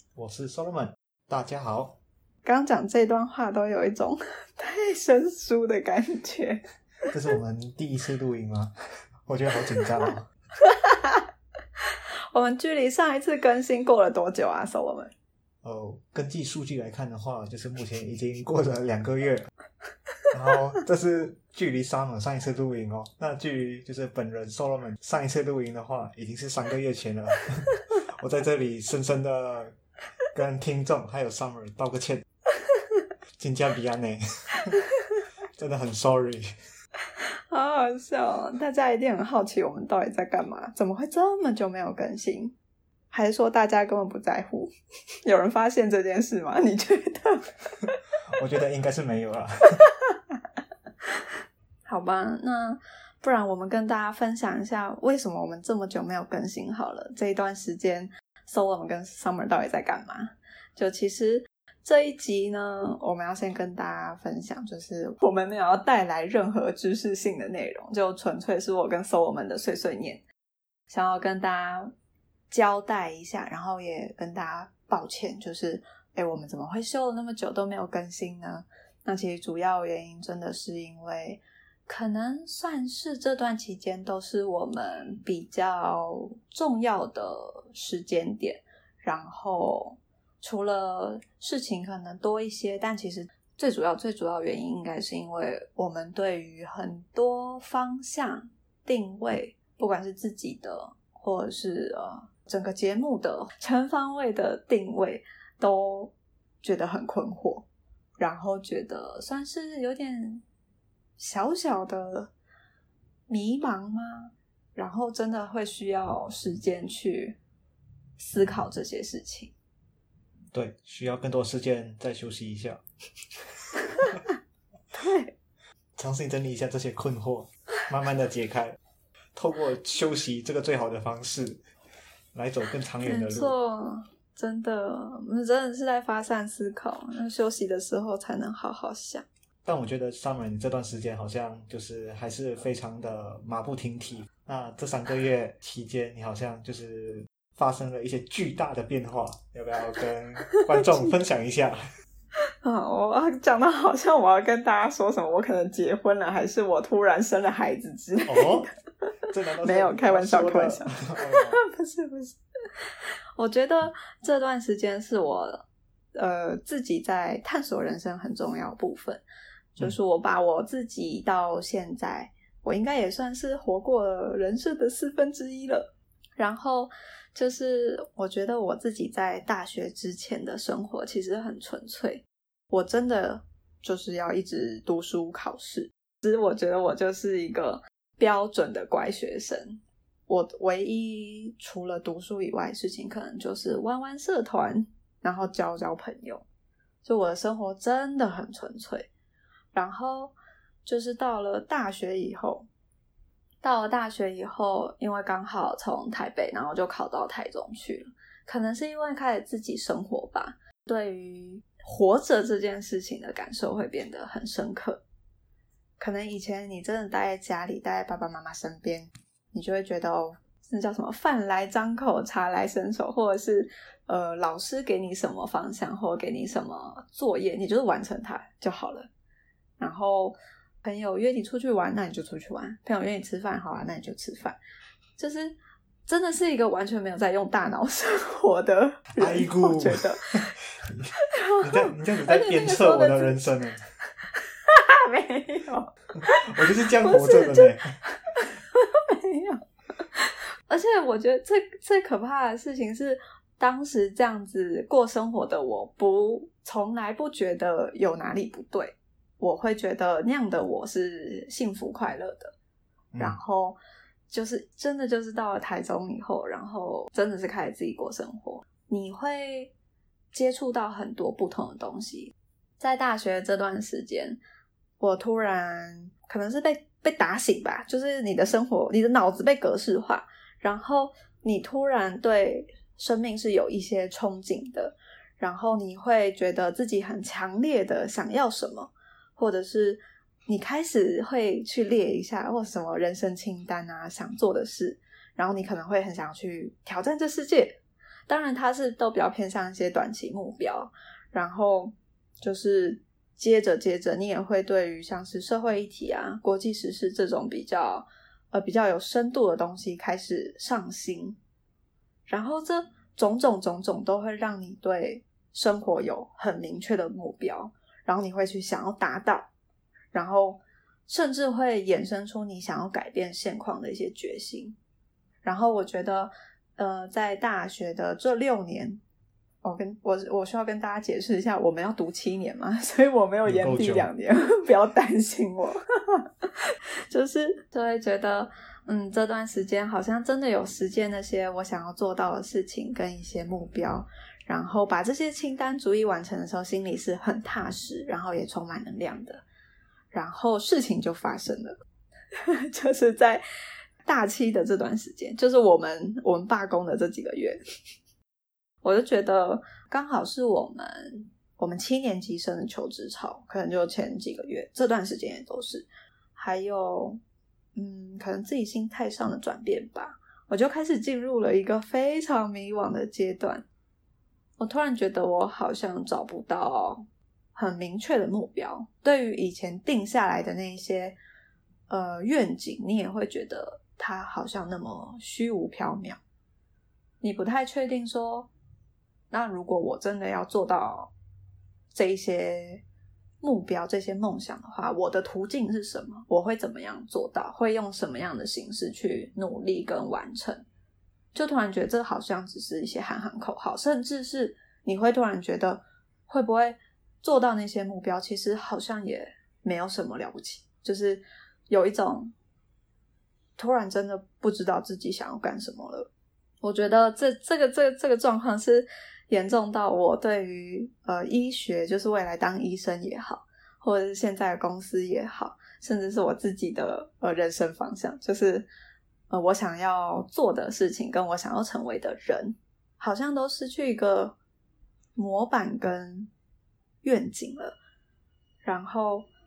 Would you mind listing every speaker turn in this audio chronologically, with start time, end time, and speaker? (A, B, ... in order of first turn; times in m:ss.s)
0:00.2-0:02.0 A
0:02.4-0:06.6 B
0:07.1-0:08.7 A
0:09.3-0:10.3 A
0:10.7-0:11.2 B
0:12.3-0:15.1 B
0:15.6-0:19.5 A
0:20.3-0:29.7 A
0:30.3-0:32.2 A
0:33.4-0:34.7 A
0:35.6-0:36.5 A
0:37.5-0:42.5 B
0:43.1-0:44.7 B
0:45.2-0:47.9 B
0:48.4-0:49.7 A
0:51.9-1:10.2 B
1:10.9-1:11.9 B
1:12.5-1:47.7 B
1:48.2-1:50.4 B
1:51.2-1:52.3 B
1:53.3-1:57.4 B
1:58.2-1:59.5 B
2:00.5-2:02.8 A
2:04.9-2:05.3 B
2:06.0-2:08.8 A
2:09.4-2:11.6 A
2:12.3-2:13.6 A
2:13.0-2:19.2 B
2:19.6-2:31.8 A
2:30.5-2:30.8 B
2:32.6-2:38.7 B
2:38.3-2:38.7 A
2:39.3-2:41.6 A
2:39.6-2:42.9 B
2:43.4-2:49.2 B
2:49.8-2:55.9 B
2:56.4-3:16.5 B
3:17.0-3:19.1 B
3:19.7-3:22.7 B
3:23.6-3:35.0 B
3:36.0-3:49.1 B
3:49.8-3:54.6 B
3:55.2-4:00.5 B
3:59.2-4:01.1 A
4:01.3-4:03.5 B
4:01.6-4:03.8 A
4:04.3-4:09.6 B
4:06.5-4:07.8 A
4:10.2-4:22.5 B
4:23.1-4:23.4 A
4:23.2-4:23.8 B
4:24.3-4:29.7 B
4:30.3-4:34.4 B
4:35.0-5:11.4 B
5:12.3-5:19.5 B
5:20.1-5:24.8 B
5:25.4-5:29.0 B
5:29.6-5:36.5 B
5:33.4-5:34.1 A
5:37.1-5:49.4 B
5:50.1-5:51.8 B
5:52.4-5:53.4 B
5:54.0-5:57.6 B
5:58.8-6:07.2 B
6:07.8-6:13.6 B
6:14.6-6:21.2 B
6:21.9-6:26.2 B
6:27.2-6:28.5 B
6:29.3-6:31.1 B
6:31.9-6:32.8 B
6:33.4-6:40.6 B
6:41.3-6:52.3 B
6:53.6-6:56.1 B
6:56.6-7:08.7 B
7:09.3-7:14.4 B
7:15.2-7:16.3 B
7:17.0-7:17.8 B
7:18.6-7:19.3 B